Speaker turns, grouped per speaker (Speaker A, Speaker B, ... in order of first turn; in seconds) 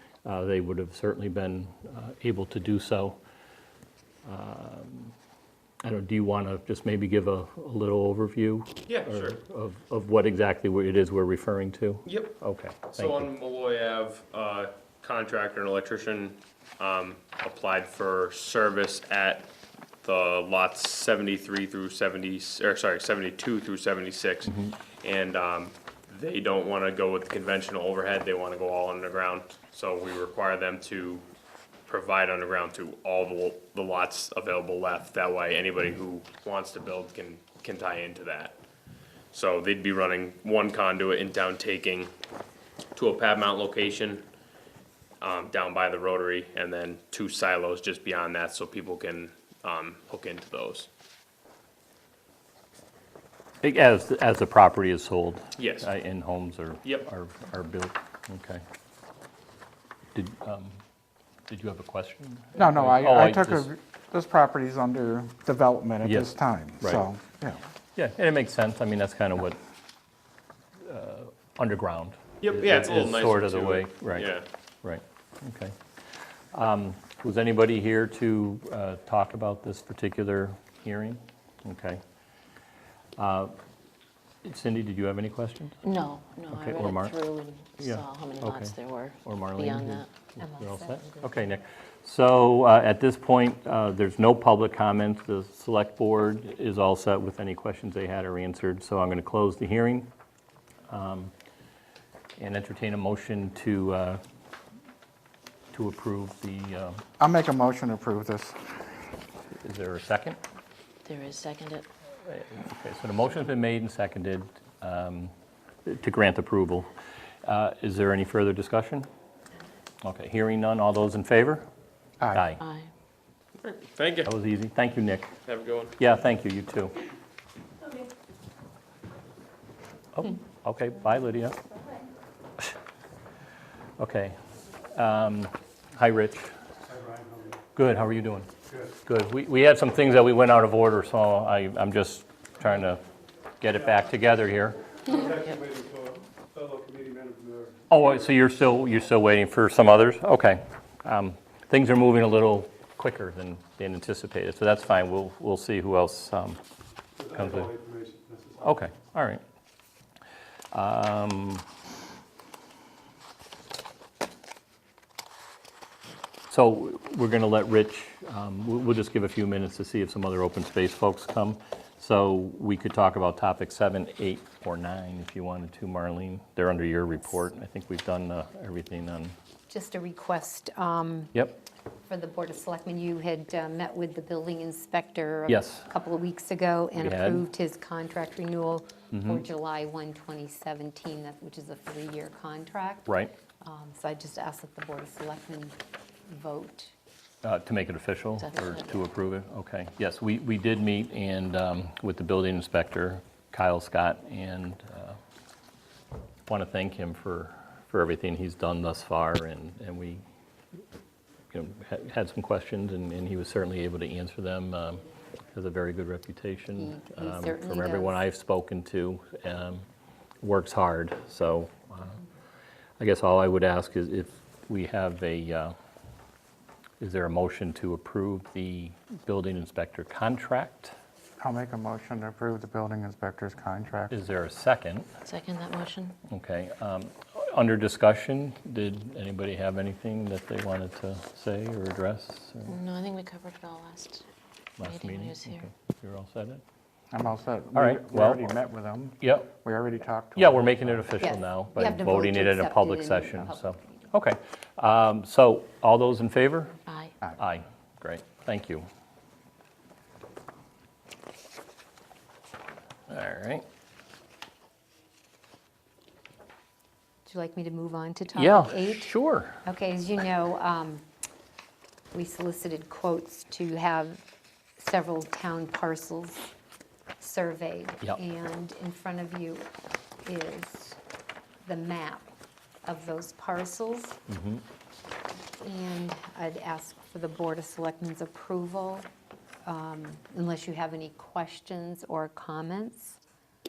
Speaker A: 0.2-3.2, 4.2-5.1, 5.8-13.3, 24.5-24.7, 53.6-58.6, 60.1-60.8, 61.5-63.7, 66.0-67.0, 68.0-69.6, 70.8-74.3, 74.8-75.8, 76.5-82.0, 83.2-83.5, 84.4-85.8, 86.5-87.2, 87.8-100.1, 100.9-101.3, 102.4-104.2, 105.7-107.0, 109.6-110.4, 112.2-115.3, 115.8-116.9, 117.4-119.1, 120.0-121.7, 122.3-122.6, 124.2-125.3, 126.0-126.9, 130.1-131.6, 134.0-134.4, 134.9-136.5, 137.8-138.5, 139.1-143.0, 143.6-144.8, 147.9-156.6, 157.3-157.7, 158.6-159.4, 160.7-161.7, 166.5-179.4, 185.5-185.9, 187.0-187.4, 189.1-189.4, 193.1-193.3, 197.4-205.2, 206.5-210.2, 211.5-219.9, 220.4-222.2, 223.0-225.8, 227.0-230.9, 234.1-235.1, 236.3-242.7, 244.8-246.6, 247.7-248.5, 249.2-249.5, 250.4-256.8, 257.4-258.9, 263.1-263.6, 268.3-269.6, 284.3-284.6
Speaker B: 8.9-9.4, 12.1-31.2, 31.9-38.6, 39.3-42.1, 43.0-44.2, 45.2-50.9, 55.6-55.9, 72.4-74.5, 123.6-124.3, 125.5-126.0
Speaker C: 62.6-67.6, 107.2-108.8, 231.4-234.2, 247.1-251.1
Speaker D: 85.8-90.1, 111.0-111.9, 122.6-122.9, 198.4-198.9, 235.3-236.2, 242.7-244.2, 244.8-245.7, 256.9-257.1
Speaker E: 90.4-91.4, 179.7-181.4, 182.1-195.8, 196.3-196.9, 216.8-218.2, 251.2-254.1, 267.3-271.1, 272.1-274.2, 274.8-276.5, 277.2-279.7, 280.2-281.0, 281.6-282.3, 282.9-284.2, 285.6-289.1, 289.6-293.2
Speaker F: 136.9-137.6, 145.1-147.8, 157.2-158.7